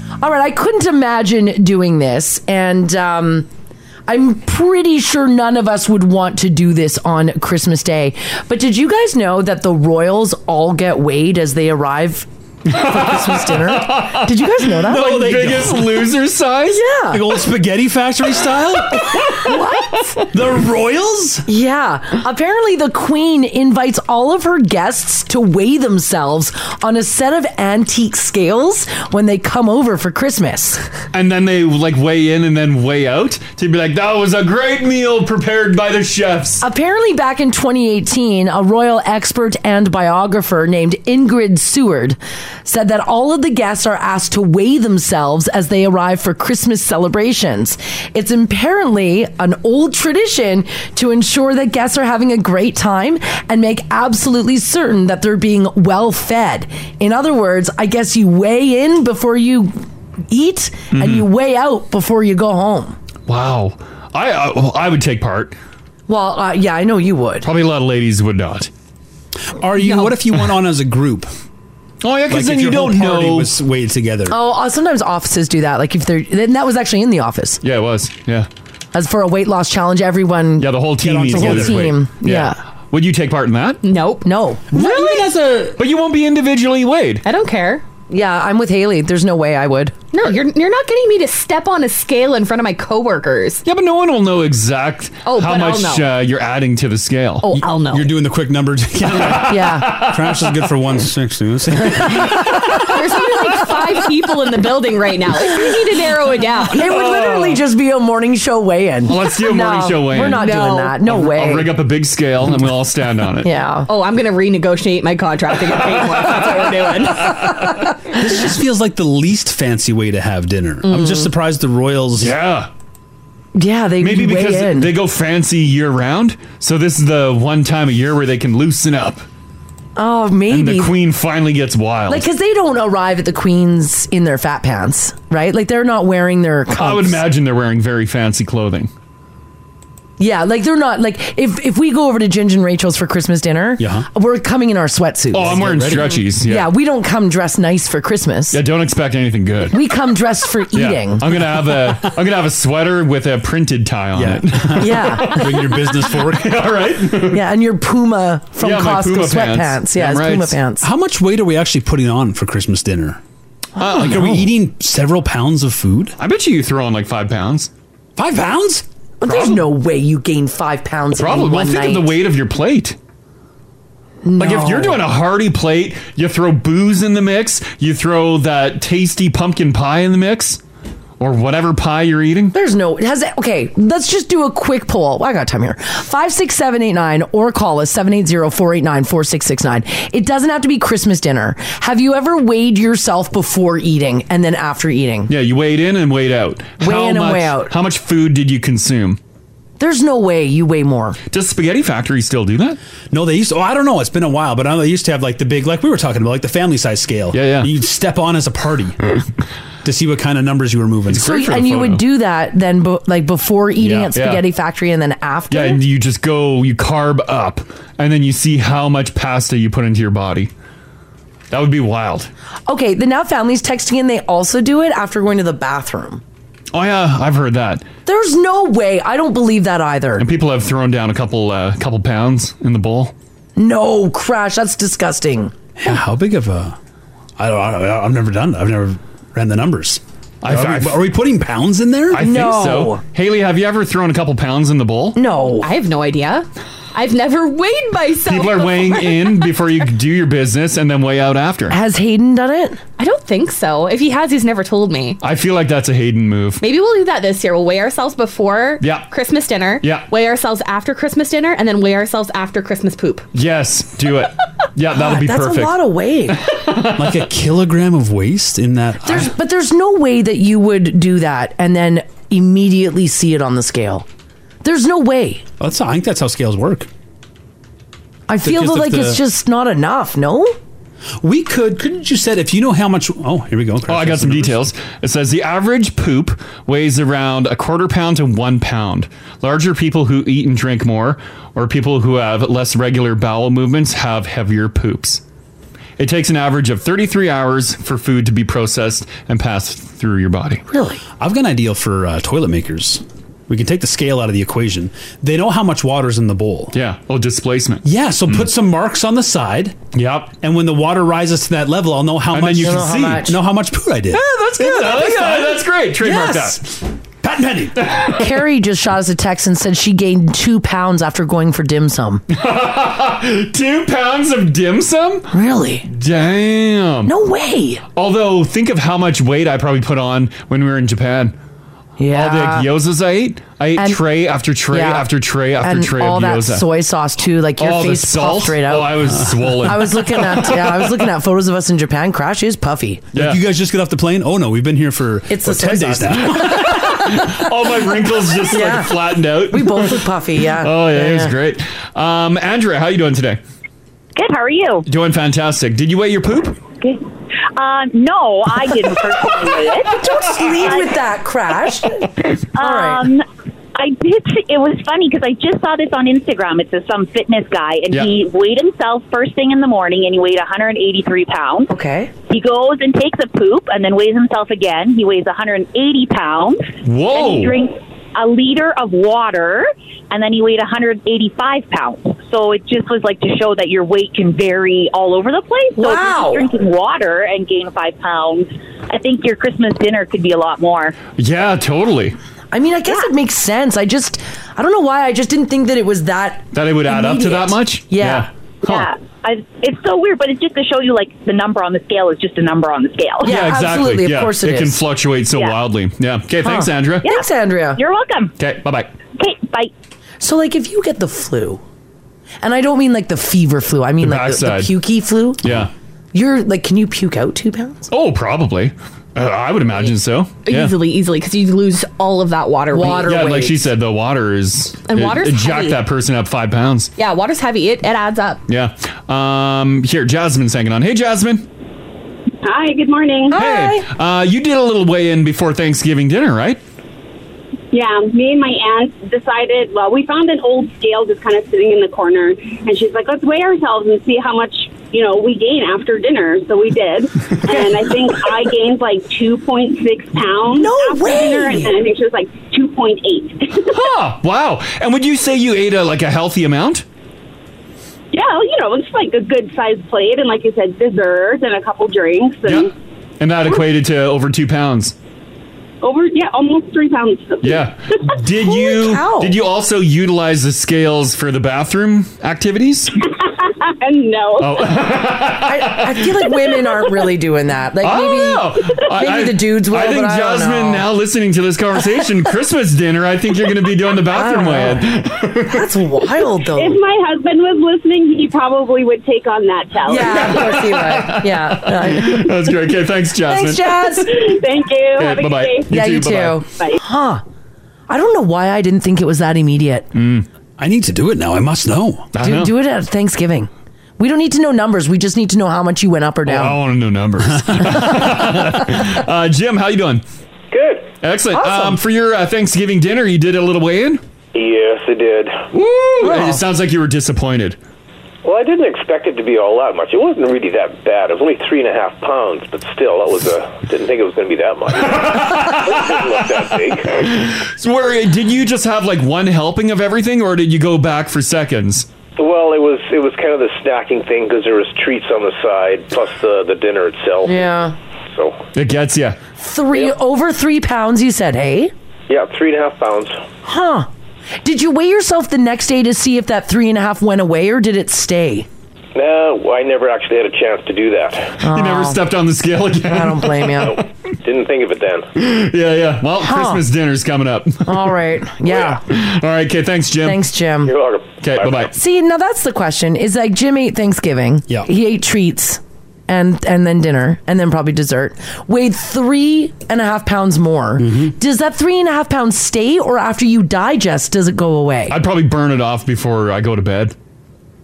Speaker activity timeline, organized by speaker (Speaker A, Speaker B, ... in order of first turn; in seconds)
Speaker A: 0.2-3.5, 4.1-15.2, 16.7-17.2, 19.2-20.2, 21.5-30.8, 36.6-59.7, 60.3-63.0, 66.1-67.5, 74.3-77.6, 78.9-80.7, 81.3-82.6, 84.2-84.7, 88.1-89.9, 99.5-100.0, 106.7-111.7, 113.4-113.9, 123.5-124.9, 129.9-130.9, 132.1-137.2, 140.2-145.6, 146.4-148.6, 149.7-151.2, 154.8-155.4, 157.3-160.9, 163.8-164.4, 169.2-172.2, 174.2-175.0, 182.5-195.3, 196.8-197.7, 199.8-201.2, 211.2-215.8, 222.7-226.2, 228.1-230.2, 233.6-235.5, 242.2-243.0, 245.1-245.7, 251.7-252.8, 264.9-266.4, 269.0-274.1, 274.6-275.4, 278.3-280.6, 300.7-301.0, 312.6-313.4, 318.2-322.2, 325.3-325.9, 327.0-327.8, 332.0-332.7, 334.7-335.1, 335.6-339.0, 339.6-343.0, 345.3-346.6, 348.5-348.9, 349.5-351.3, 359.9-363.1, 371.7-372.1, 385.8-386.5, 392.5-398.3, 403.2-404.8, 406.4-407.8, 410.2-411.6, 412.4-415.4, 416.1-417.9, 422.7-423.6, 433.3-433.9, 450.5-451.7, 468.4-469.4, 475.4-480.9, 484.1-484.9, 485.5-486.8, 489.9-492.3, 493.3-494.1, 495.7-497.2, 497.9-499.9, 502.2-506.6, 511.3-511.8, 516.0-516.4, 537.2-537.8, 539.4-541.7, 543.4-543.9, 544.4-548.5, 551.4-552.0, 552.8-553.8, 556.2-556.6, 557.6-558.8, 560.0-560.7, 561.7-575.0
Speaker B: 12.7-16.8, 31.1-36.6, 60.9-61.2, 63.3-65.5, 67.4-68.7, 72.0-73.5, 77.6-78.5, 80.6-83.8, 85.8-87.2, 93.6-97.5, 99.1-100.6, 106.8-107.6, 109.1-110.5, 111.1-113.5, 115.8-117.1, 122.2-122.7, 124.0-129.2, 130.5-132.2, 136.8-138.9, 145.3-146.7, 148.5-149.8, 150.7-157.4, 158.6-160.6, 163.8-164.4, 166.2-167.7, 169.2-169.6, 171.1-173.0, 174.4-180.6, 181.2-182.5, 195.3-199.2, 201.3-202.8, 207.3-207.7, 211.1-212.0, 213.8-214.4, 215.5-220.5, 221.5-222.3, 226.7-227.8, 230.2-233.1, 240.4-241.0, 242.1-245.2, 248.2-251.7, 255.2-256.6, 258.8-259.1, 259.8-260.1, 263.3-265.7, 266.3-267.3, 283.9-295.2, 296.0-300.6, 306.7-308.4, 309.9-310.3, 312.3-313.2, 314.1-316.6, 317.8-318.4, 322.3-325.3, 325.9-327.1, 327.9-331.3, 332.1-336.6, 337.6-341.0, 343.1-343.4, 346.2-350.0, 350.6-353.4, 354.9-356.6, 376.8-377.6, 391.2-392.1, 396.5-398.9, 403.2-407.1, 408.4-408.9, 414.0-414.7, 415.4-415.7, 417.9-420.7, 422.9-426.9, 428.5-431.5, 433.3-436.6, 453.7-456.8, 462.4-464.9, 467.4-472.9, 474.4-476.1, 477.8-485.6, 490.0-493.9, 494.9-496.4, 499.9-500.2, 502.1-502.5, 506.2-510.0, 511.0-514.0, 515.5-517.6, 524.8-531.9, 538.5-539.2, 551.5-553.7, 555.1-557.9, 558.5-560.2, 561.2-561.7, 574.9-576.9
Speaker C: 14.8-16.1, 17.1-19.2, 20.3-21.4, 69.5-71.3, 72.3-74.4, 81.0-81.9, 84.7-85.8, 97.5-102.7, 118.1-122.3, 143.8-144.1, 145.4-146.2, 154.1-156.8, 160.8-163.2, 163.8-166.2, 168.2-168.8, 203.1-209.0, 209.8-211.3, 235.8-236.8, 237.4-242.3, 266.9-269.3, 275.6-276.9, 278.4-279.2, 281.2-284.7, 301.2-306.7, 307.8-309.8, 310.4-316.6, 317.2-317.8, 339.1-339.7, 343.1-346.9, 500.6-502.1, 570.8-571.1
Speaker D: 69.8-70.1, 83.8-85.2, 87.2-87.8, 90.1-93.6, 95.2-96.1, 97.4-98.1, 102.7-106.8, 110.2-111.1, 113.9-117.9, 120.8-121.3, 245.6-249.6, 253.0-255.2, 256.6-263.2, 420.4-423.1, 424.9-425.8, 427.0-428.4
Speaker E: 354.1-354.9, 357.5-360.0, 360.6-360.9, 362.5-371.7, 372.3-391.0, 398.6-403.3, 407.0-408.3, 409.1-409.7
Speaker F: 432.4-433.3, 437.7-453.9, 458.1-462.7, 465.8-467.7, 473.8-474.8, 486.5-490.7, 494.0-495.7
Speaker G: 510.5-510.9, 514.3-515.4, 518.2-526.9, 532.2-537.5, 538.1-538.4, 542.1-543.2, 548.9-551.4, 553.6-555.1, 560.6-561.7